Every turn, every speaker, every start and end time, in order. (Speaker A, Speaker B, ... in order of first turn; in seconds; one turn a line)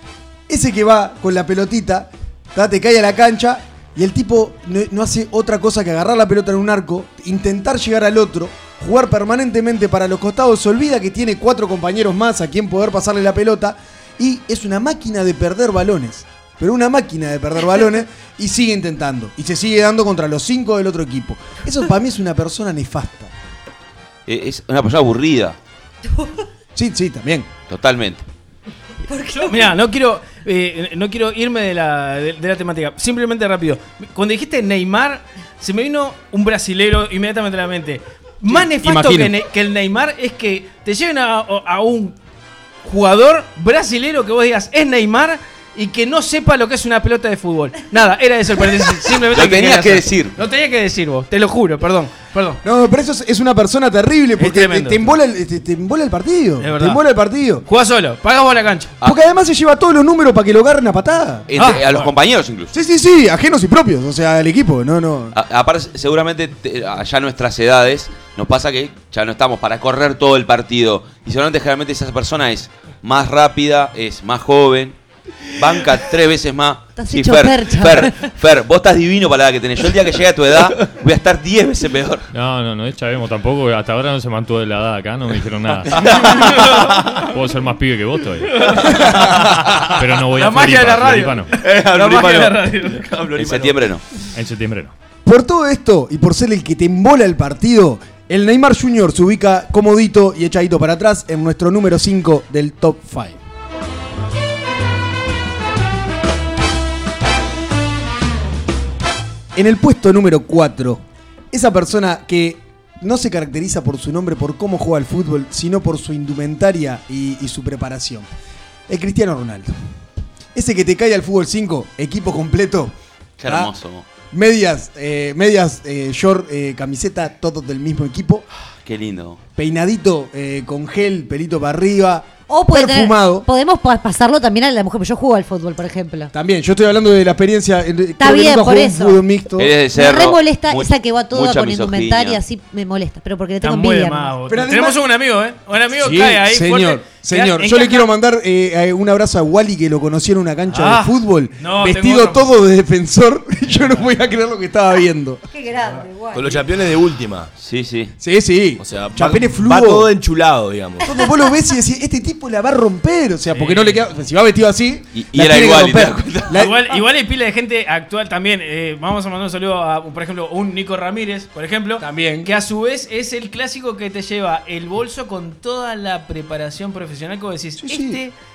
Speaker A: 0.5-23.3
Speaker B: 24.3-25.6
Speaker A: 26.8-27.5
Speaker B: 27.7-28.2
Speaker C: 29.1-29.7
Speaker D: 29.4-42.1
Speaker A: 38.5-39.3
Speaker D: 42.9-52.6
Speaker B: 49.3-50.4
Speaker A: 52.6-57.6
Speaker D: 54.4-55.1
Speaker D: 56.6-57.0
Speaker D: 57.7-58.9
Speaker A: 59.0-61.5
Speaker B: 61.5-62.8
Speaker D: 61.5-62.1
Speaker A: 62.7-65.3
Speaker B: 65.3-75.0
Speaker B: 75.5-82.3
Speaker C: 77.0-78.2
Speaker E: 82.3-91.5
Speaker F: 85.9-86.3
Speaker D: 86.2-87.2
Speaker D: 88.6-88.8
Speaker F: 89.1-90.0
Speaker D: 90.3-93.1
Speaker F: 91.5-94.0
Speaker B: 93.4-94.0
Speaker E: 94.3-94.9
Speaker A: 95.2-103.4
Speaker A: 109.6-118.3
Speaker A: 118.9-119.7
Speaker A: 120.5-122.9
Speaker B: 123.4-124.0
Speaker A: 123.5-123.7
Speaker A: 124.3-128.5
Speaker B: 128.8-129.4
Speaker A: 129.6-133.5
Speaker C: 132.5-136.3
Speaker A: 136.3-139.7
Speaker C: 138.2-139.2
Speaker B: 139.6-142.4
Speaker C: 139.9-144.3
Speaker D: 143.6-148.1
Speaker A: 144.5-145.0
Speaker A: 146.0-155.4
Speaker D: 150.7-152.5
Speaker C: 155.5-156.6
Speaker F: 156.3-157.5
Speaker B: 157.6-158.1
Speaker A: 158.2-160.1
Speaker F: 158.8-161.1
Speaker A: 161.0-167.0
Speaker D: 163.5-164.0
Speaker B: 165.2-166.6
Speaker D: 166.5-178.3
Speaker A: 172.0-172.5
Speaker A: 177.8-178.2